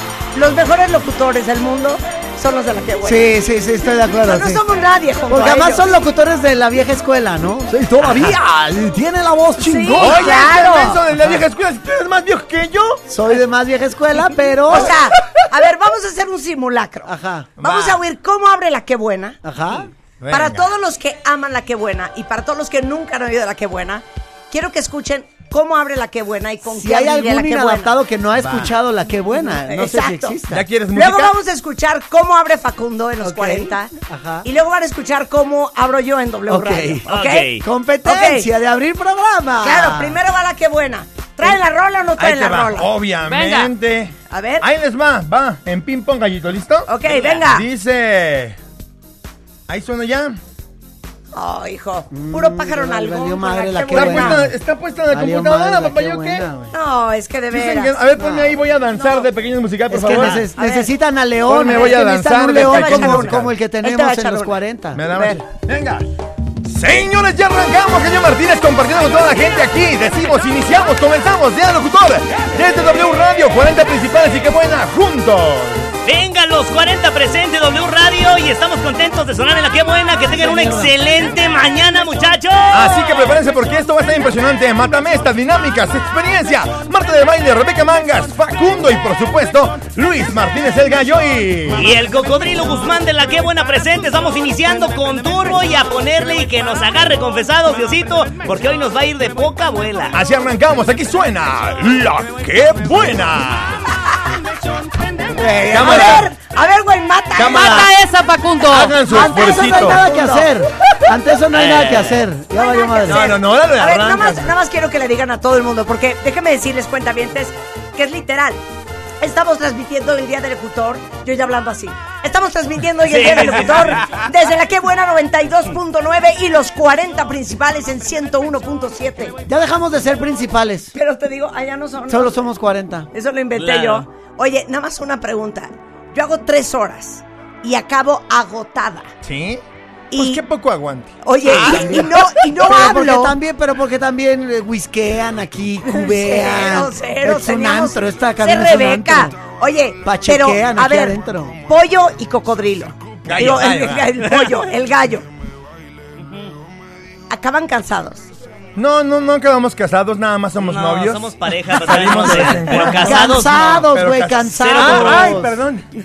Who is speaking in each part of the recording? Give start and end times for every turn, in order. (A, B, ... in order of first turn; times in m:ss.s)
0:00.3-0:03.3 A
0:03.0-0:04.6 B
0:04.2-0:05.9 A
0:05.3-0:10.5 B
0:09.6-0:11.0 A
0:10.0-0:13.0 C
0:11.1-0:11.4 B
0:13.1-0:15.0 B
0:14.6-0:19.4 A
0:17.0-0:17.5 B
0:17.6-0:18.0 C
0:19.4-0:19.9 B
0:20.2-0:20.7 C
0:20.3-0:27.9 A
0:26.7-0:30.6 B
0:28.4-0:28.7 C
0:29.3-0:30.4 A
0:30.5-0:31.3 C
0:30.9-0:37.5 A
0:33.2-0:34.4 B
0:36.5-0:37.0 B
0:37.1-0:37.6 D
0:37.6-0:40.2 B
0:38.0-0:38.5 A
0:39.6-0:42.9 A
0:42.2-0:46.9 C
0:43.3-0:43.7 E
0:44.3-0:44.7 A
0:46.8-0:47.6 A
0:47.0-0:47.5 D
0:47.4-0:48.6 C
0:49.7-0:50.4 C
0:51.3-0:54.4 A
0:52.1-0:54.5 B
0:53.9-0:56.5 C
0:55.1-0:56.7 B
0:56.7-0:58.1 A
0:57.5-1:00.4 C
0:58.2-0:58.6 B
0:59.0-0:59.3 A
0:59.9-1:05.0 B
1:00.0-1:00.9 A
1:01.5-1:03.5 C
1:01.6-1:05.4 A
1:04.9-1:06.0 C
1:06.6-1:15.9 C
1:16.0-1:23.3 D
1:22.7-1:31.9 C
1:31.7-1:40.2 D
1:40.1-1:43.9 C
1:45.3-1:46.2 B
1:45.6-1:47.9 A
1:45.7-1:46.3 C
1:47.4-1:47.9 C
1:47.4-1:49.0 E
1:48.6-1:50.0 C
1:49.0-1:53.3 B
1:49.6-1:50.5 A
1:51.5-1:52.3 D
1:52.5-1:58.6 A
1:53.1-1:54.5 C
1:59.2-2:09.4 A
2:03.0-2:04.1 D
2:09.4-2:10.9 B
2:10.9-2:12.4 A
2:12.1-2:13.1 B
2:13.1-2:19.1 A
2:13.5-2:14.0 D
2:19.2-2:19.6 C
2:20.1-2:20.4 A
2:20.1-2:21.8 C
2:21.2-2:23.4 A
2:21.5-2:29.4 B
2:25.8-2:35.2 A
2:30.0-2:31.6 B
2:33.2-2:34.1 C
2:36.2-2:36.5 D
2:37.3-2:38.3 A
2:38.8-2:45.8 C
2:40.6-2:43.9 D
2:42.9-2:45.5 B
2:44.5-2:45.3 D